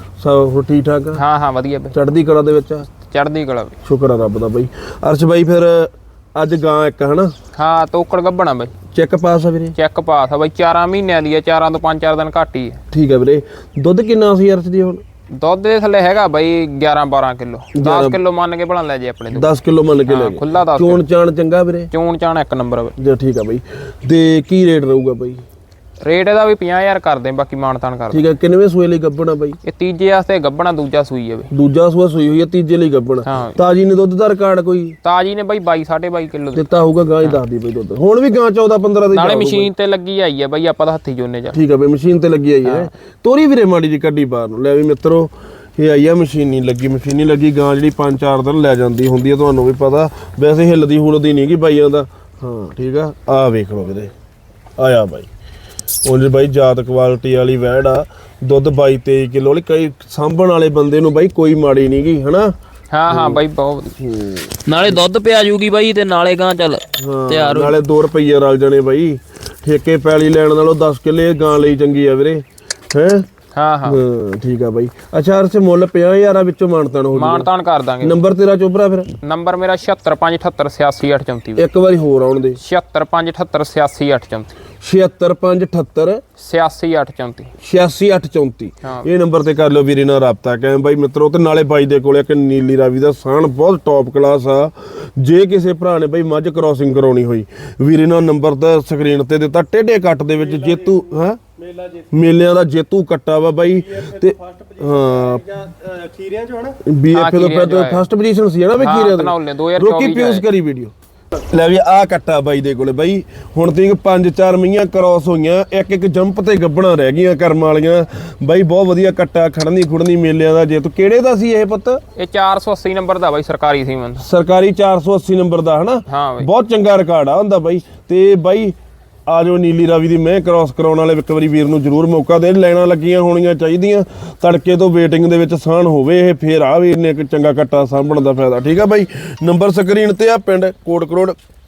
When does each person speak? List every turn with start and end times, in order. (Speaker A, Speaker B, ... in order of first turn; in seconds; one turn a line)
Speaker A: 0.2-1.2
Speaker B: 1.1-1.9
Speaker A: 1.9-2.9
Speaker B: 3.0-3.7
Speaker A: 3.8-7.3
Speaker B: 7.5-8.7
Speaker A: 8.9-9.8
Speaker B: 9.8-12.8
Speaker A: 12.9-15.0
Speaker B: 15.4-19.5
Speaker A: 17.7-18.2
Speaker A: 19.3-21.9
Speaker B: 20.1-21.0
Speaker B: 21.9-23.0
Speaker A: 23.0-25.4
Speaker B: 26.0-28.2
Speaker A: 28.1-29.6
Speaker B: 29.6-31.5
Speaker A: 31.5-35.0
Speaker B: 33.2-33.5
Speaker B: 35.0-36.6
Speaker A: 36.5-39.7
Speaker B: 39.1-41.6
Speaker A: 41.5-54.1
Speaker B: 42.6-42.9
Speaker A: 54.8-55.3
Speaker A: 56.0-62.5
Speaker B: 62.9-64.0
Speaker A: 63.1-63.4
Speaker A: 64.0-64.5
Speaker C: 64.6-67.8
Speaker A: 67.0-73.2
Speaker B: 73.5-74.0
Speaker A: 73.8-77.5
Speaker B: 77.1-78.2
Speaker A: 78.0-79.1
Speaker B: 79.2-81.6
Speaker A: 81.5-82.6
Speaker B: 82.6-84.5
Speaker A: 84.8-86.2
Speaker B: 86.4-87.5
Speaker A: 87.6-101.4
Speaker A: 101.9-106.0
Speaker A: 106.5-122.0
Speaker B: 107.1-108.0
Speaker B: 108.8-110.5
Speaker B: 122.2-124.2
Speaker A: 124.2-128.7
Speaker B: 126.1-126.5
Speaker A: 129.3-141.4